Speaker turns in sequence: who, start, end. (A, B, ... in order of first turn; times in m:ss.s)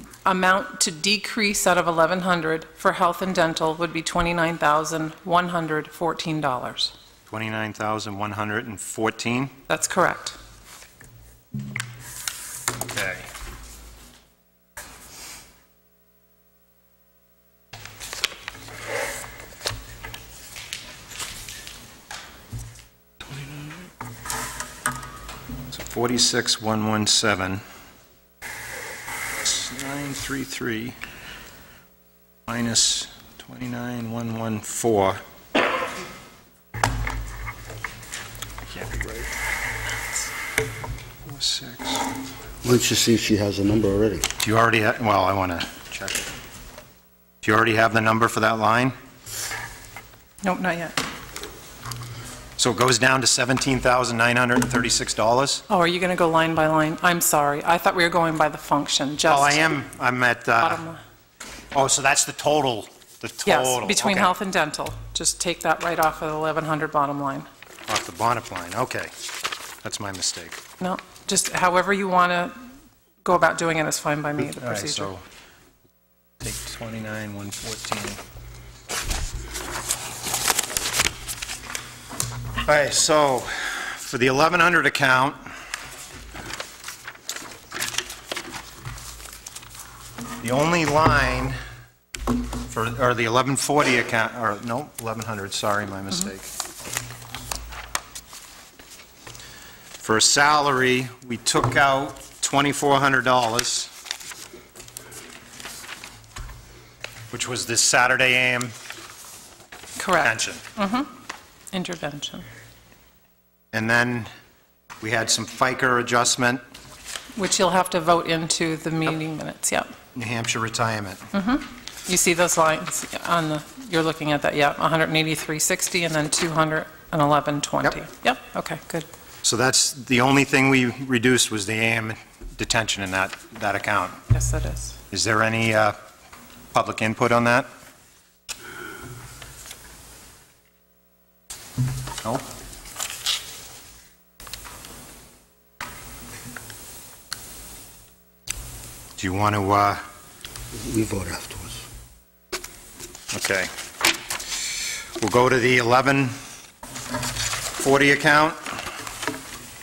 0:00.2-0:06.9 A
0:07.3-0:09.5 B
0:09.7-0:10.4 A
0:12.7-0:13.3 B
0:25.7-0:27.6 B
0:29.4-0:31.0 B
0:32.5-0:35.2 B
0:38.7-0:39.3 B
0:41.2-0:42.0 B
0:42.6-0:44.2 C
0:44.4-0:46.3 B
0:47.4-0:49.0 B
0:50.4-0:51.0 A
0:52.6-0:55.6 B
0:55.7-0:59.6 A
0:59.2-1:00.8 B
1:00.6-1:01.0 A
1:01.7-1:04.3 B
1:03.4-1:07.5 A
1:07.9-1:09.1 B
1:09.8-1:10.6 B
1:10.8-1:12.7 A
1:13.2-1:15.1 A
1:14.5-1:15.2 B
1:16.4-1:18.2 B
1:22.6-1:25.4 B
1:30.4-1:31.6 B
1:32.7-1:36.5 B
1:40.0-1:43.9 B
1:47.3-1:48.7 B
1:50.0-1:51.1 A
1:50.2-1:50.6 B
1:51.7-1:52.4 A
1:53.7-1:54.3 B
1:55.0-1:56.6 B
1:57.4-1:59.9 A
2:00.1-2:01.2 B
2:01.3-2:09.1 A
2:09.4-2:14.2 B
2:14.3-2:15.0 A
2:15.1-2:16.0 B
2:16.7-2:17.7 B
2:29.2-2:30.0 B
2:30.7-2:31.8 C
2:33.3-2:33.7 B
2:35.2-2:36.3 B
2:37.8-2:38.6 B